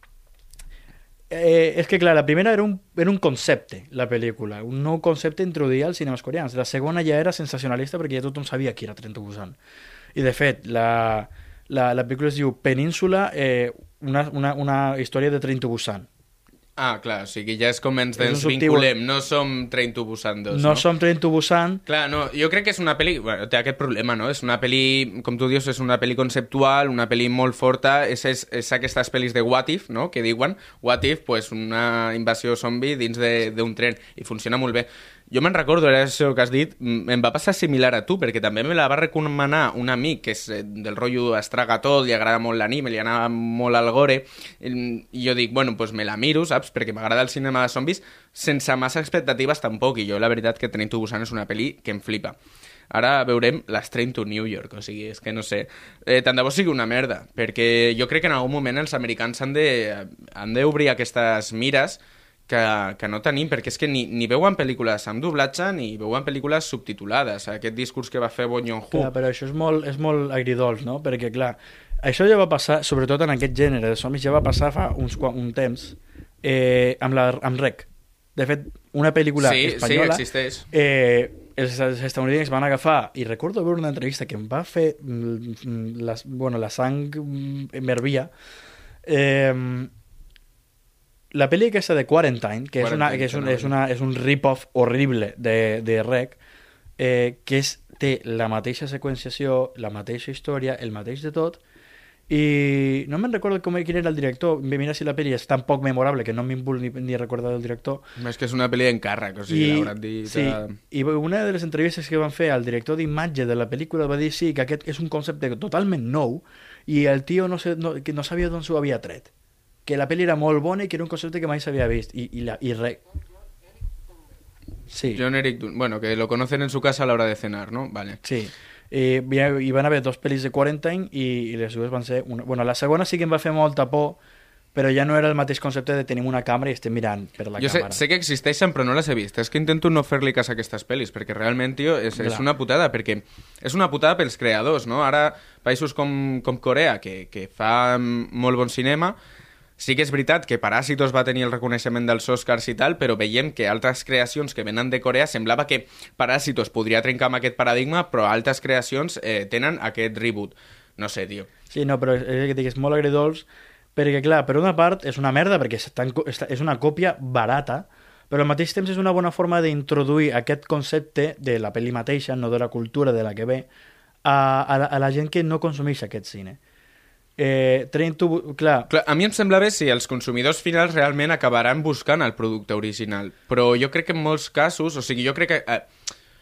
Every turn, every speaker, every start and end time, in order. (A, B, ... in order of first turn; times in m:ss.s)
0:01.3-0:09.6 A
0:10.1-0:16.1 A
0:16.8-0:20.8 B
0:18.2-0:18.9 A
0:20.5-0:21.8 A
0:21.9-0:52.3 B
0:52.9-1:09.1 B
1:08.9-1:28.3 A
1:19.4-1:20.6 B
1:29.0-1:29.9 A
1:31.3-1:36.4 A
1:32.8-1:33.7 B
1:37.0-1:41.6 A
1:42.3-1:48.0 A
1:48.2-1:50.8 B
1:49.5-1:59.3 A
1:59.8-2:03.0 A
2:04.9-2:05.2 A
2:05.1-2:08.2 B
2:08.2-2:14.2 A
2:14.7-2:18.0 A
2:17.6-2:29.2 B
2:22.2-2:22.4 A
2:29.8-2:41.5 B
2:41.7-2:53.7 A
2:54.2-2:56.6 A
2:57.4-2:58.9 A
2:58.9-3:05.9 B